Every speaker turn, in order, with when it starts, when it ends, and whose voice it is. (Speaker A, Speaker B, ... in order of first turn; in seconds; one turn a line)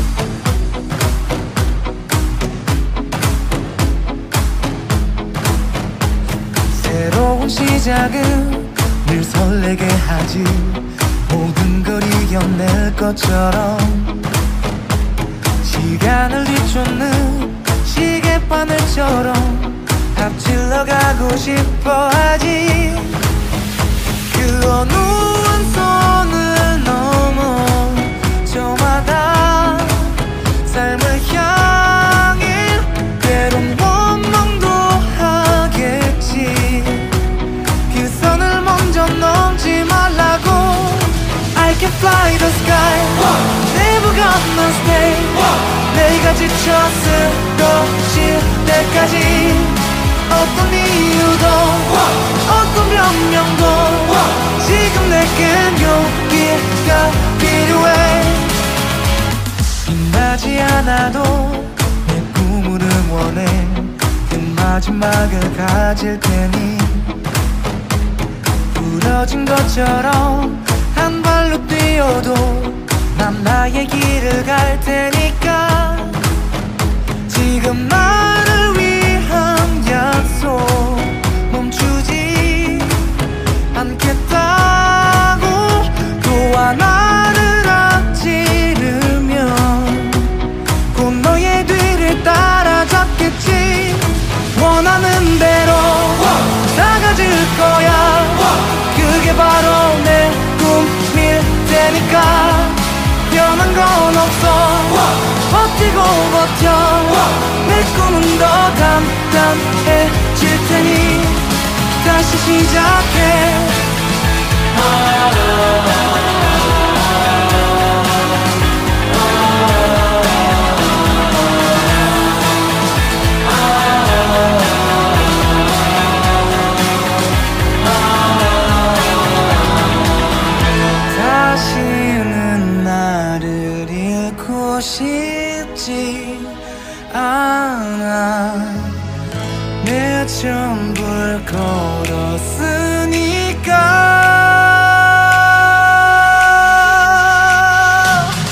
Speaker A: 6.7-14.3
Speaker A: 15.6-23.2
Speaker A: 24.3-30.1
Speaker A: 30.6-37.2
Speaker A: 37.9-58.6
Speaker A: 59.8-67.2
Speaker A: 68.7-76.2
Speaker A: 77.3-83.1
Speaker A: 83.7-90.3
Speaker A: 90.9-113.9
Speaker A: 131.1-136.6
Speaker A: 137.1-139.0
Speaker A: 139.8-148.3